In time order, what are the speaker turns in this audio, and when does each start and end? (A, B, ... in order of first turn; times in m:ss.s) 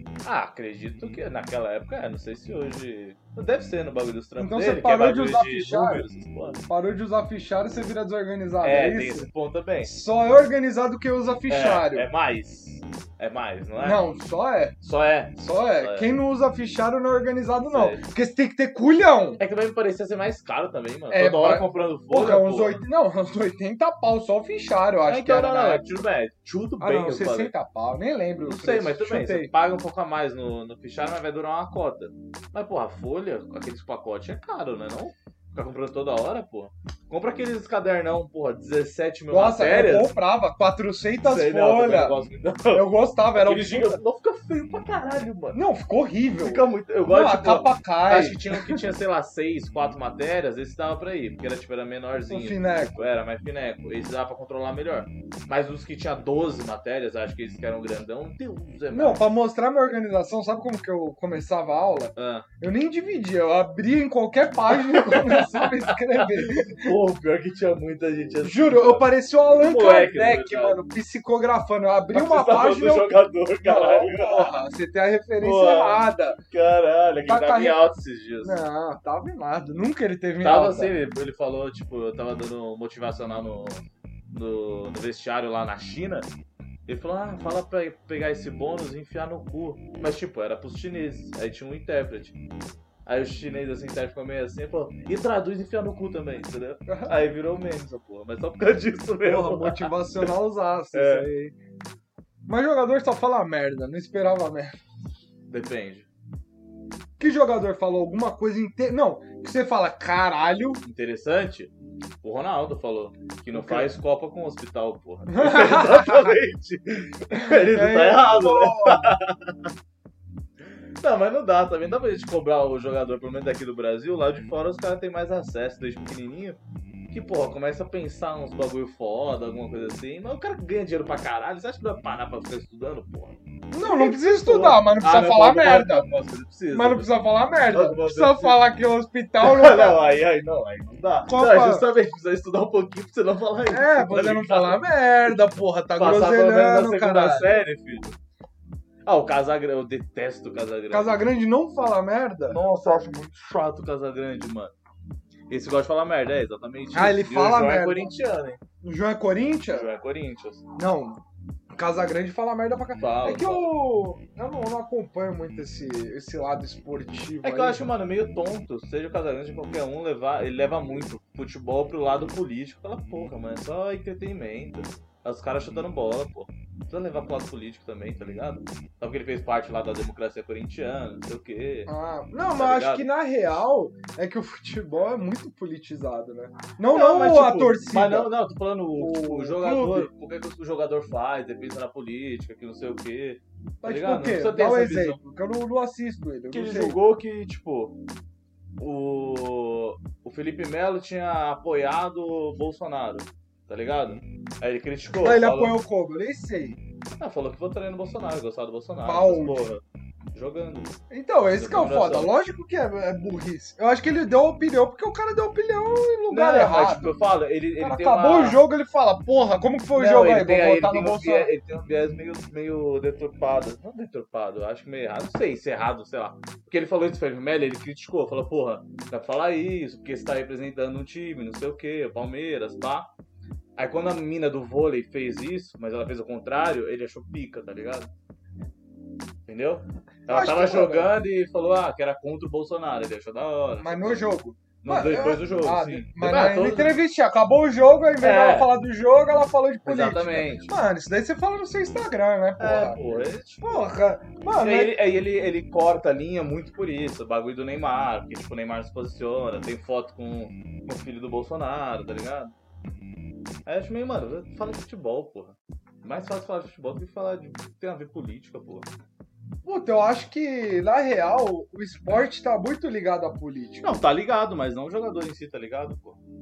0:00.2-0:06.6 A
0:04.4-0:06.0 B
0:06.7-0:09.3 B
0:08.6-0:09.9 A
0:09.8-0:12.0 B
0:11.5-0:14.1 A
0:13.8-0:14.8 B
0:14.8-0:16.1 A
0:15.4-0:19.4 B
0:17.6-0:18.0 A
0:19.4-0:22.8 A
0:21.1-0:25.9 B
0:25.0-0:27.5 A
0:26.8-0:29.5 B
0:28.4-0:40.1 A
0:39.3-0:42.2 B
0:41.2-0:45.6 A
0:42.7-0:44.0 B
0:45.5-0:48.8 B
0:46.4-0:59.2 A
0:52.3-0:53.1 B
0:58.9-1:06.9 B
1:02.2-1:02.4 A
1:04.7-1:10.8 A
1:08.4-1:16.4 B
1:12.1-1:14.6 A
1:15.4-1:18.6 A
1:17.2-1:17.8 B
1:18.4-1:20.9 B
1:20.4-1:26.3 A
1:26.8-1:32.4 A
1:33.0-1:40.3 A
1:36.9-1:37.1 B
1:39.2-1:41.5 B
1:40.9-1:41.3 A
1:42.5-1:44.8 B
1:45.5-1:46.1 A
1:47.2-1:50.8 B
1:50.8-1:59.7 A
1:53.5-1:53.9 B
1:55.3-1:56.3 B
1:57.3-1:59.2 B
2:00.6-2:06.6 A
2:07.1-2:18.6 A
2:13.7-2:16.1 B
2:16.7-2:20.0 B
2:19.4-2:25.4 A
2:21.3-2:21.9 B
2:23.7-2:27.5 B
2:26.0-2:28.1 A
2:29.0-2:31.2 A
2:30.9-2:32.6 B
2:32.5-2:34.7 A
2:35.5-2:38.6 A
2:36.9-2:38.1 B
2:38.8-2:39.9 B
2:39.7-2:40.6 A
2:40.8-2:41.2 B
2:41.7-2:47.8 B
2:43.0-2:43.7 A
2:47.4-3:01.9 A
3:01.9-3:08.3 B
3:02.5-3:03.1 A
3:06.9-3:15.2 A
3:09.0-3:10.1 B
3:13.8-3:17.0 B
3:16.5-3:18.0 A
3:18.8-3:25.8 A
3:25.2-3:26.8 B
3:27.2-3:29.8 A
3:29.0-3:29.7 B
3:30.3-3:31.0 A
3:31.1-3:37.2 B
3:31.5-3:32.3 A
3:36.3-3:38.6 A
3:37.8-3:41.5 B
3:39.9-3:53.1 A
3:53.8-3:58.1 A
3:59.5-4:04.3 A
4:00.3-4:01.1 B
4:03.8-4:15.0 B
4:04.8-4:07.0 A
4:08.2-4:08.7 A
4:09.8-4:10.7 A
4:12.6-4:13.8 A
4:14.6-4:22.5 A
4:23.6-4:28.9 A
4:29.6-4:34.0 B
4:33.8-4:36.2 A